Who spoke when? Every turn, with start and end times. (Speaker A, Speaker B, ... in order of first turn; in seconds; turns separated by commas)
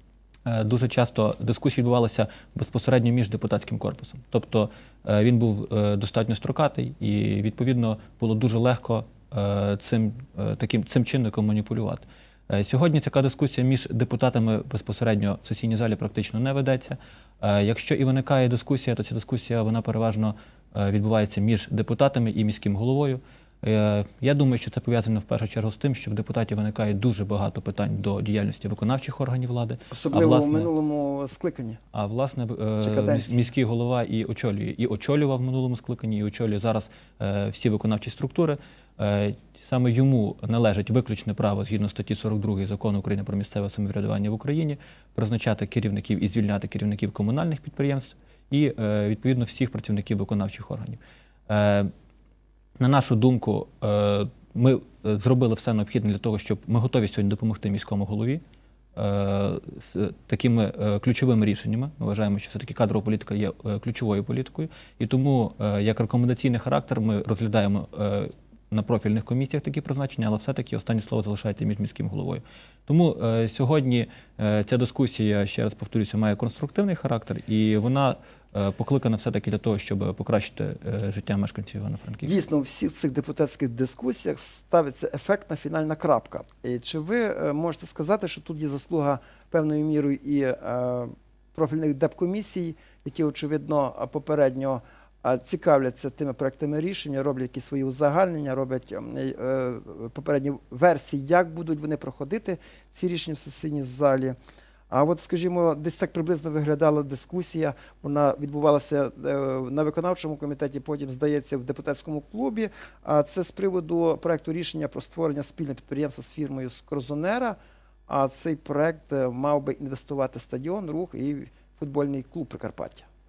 Speaker A: 0.5-30.7, Speaker B: 29.9-31.8, Speaker A: 31.9-51.9, Speaker B: 32.8-33.4, Speaker A: 52.8-58.4, Speaker A: 59.0-82.3, Speaker B: 82.2-104.4, Speaker B: 104.9-117.6, Speaker B: 118.1-123.1